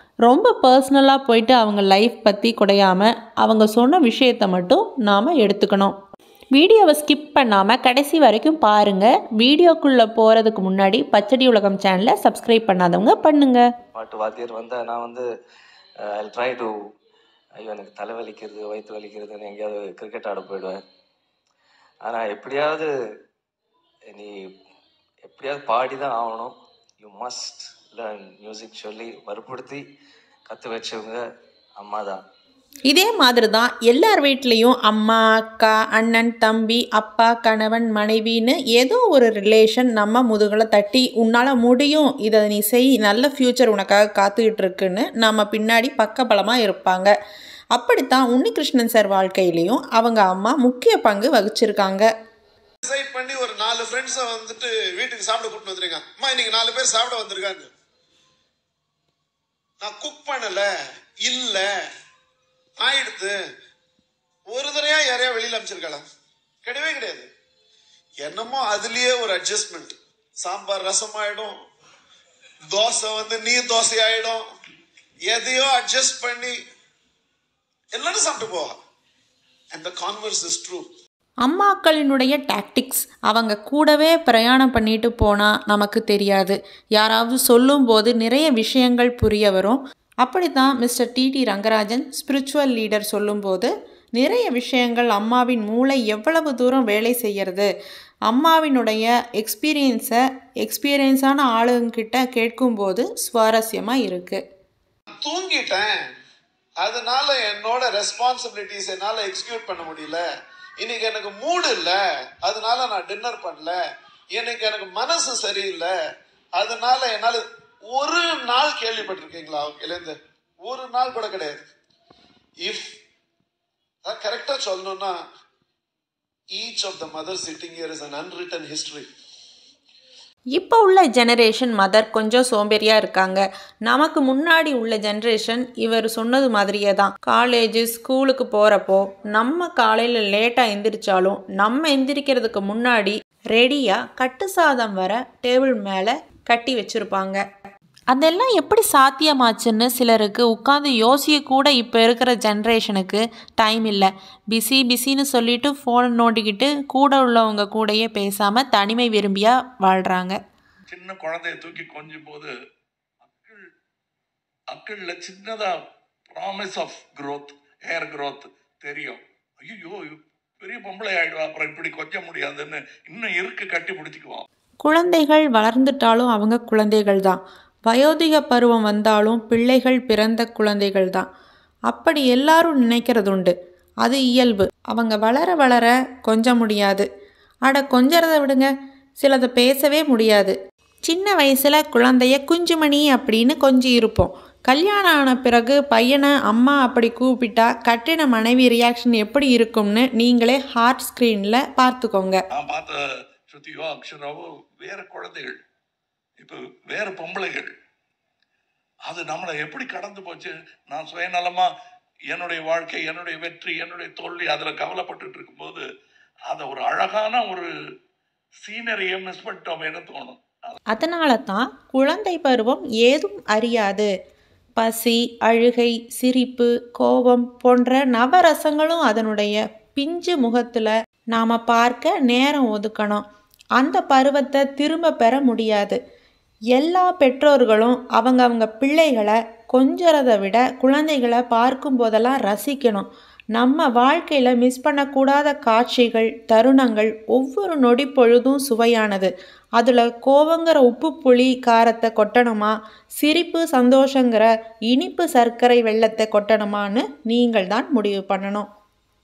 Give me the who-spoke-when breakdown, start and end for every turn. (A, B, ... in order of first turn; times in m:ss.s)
0:00.2-0:06.0 A
0:06.5-0:13.6 A
0:13.9-0:15.3 B
0:16.0-0:16.8 B
0:17.6-0:20.8 B
0:22.0-0:22.9 B
0:24.1-0:24.5 B
0:25.2-0:29.8 B
0:30.5-0:32.2 B
0:32.9-0:47.1 A
0:47.7-0:52.1 A
0:52.8-0:57.7 C
0:59.8-1:00.7 C
1:01.2-1:01.7 C
1:02.8-1:03.4 C
1:04.5-1:06.0 C
1:06.6-1:07.3 C
1:08.2-1:11.6 C
1:12.7-1:14.4 C
1:15.3-1:16.6 C
1:17.9-1:18.8 C
1:19.7-1:20.9 C
1:21.4-1:37.7 A
1:38.3-1:44.4 A
1:45.2-1:46.0 C
1:46.8-1:50.2 C
1:50.8-1:53.8 C
1:54.3-1:55.9 C
1:56.6-2:01.6 C
2:02.6-2:02.9 C
2:04.0-2:05.2 C
2:06.5-2:09.1 C
2:10.5-2:27.4 A
2:28.1-2:40.4 A
2:40.9-2:42.5 D
2:43.2-2:43.6 D
2:44.7-2:45.7 D
2:46.3-2:54.4 D
2:54.8-3:01.3 A
3:01.9-3:07.1 A
3:07.7-3:08.7 A
3:09.2-3:10.6 A
3:11.1-3:22.4 A
3:22.6-3:22.9 D
3:23.5-3:25.6 D
3:26.4-3:27.7 D
3:29.1-3:31.7 D
3:32.3-3:35.8 D
3:36.5-3:37.7 D
3:38.6-3:40.8 D
3:40.9-3:44.1 A
3:44.8-3:53.2 A
3:53.8-3:56.0 A
3:56.7-4:18.7 A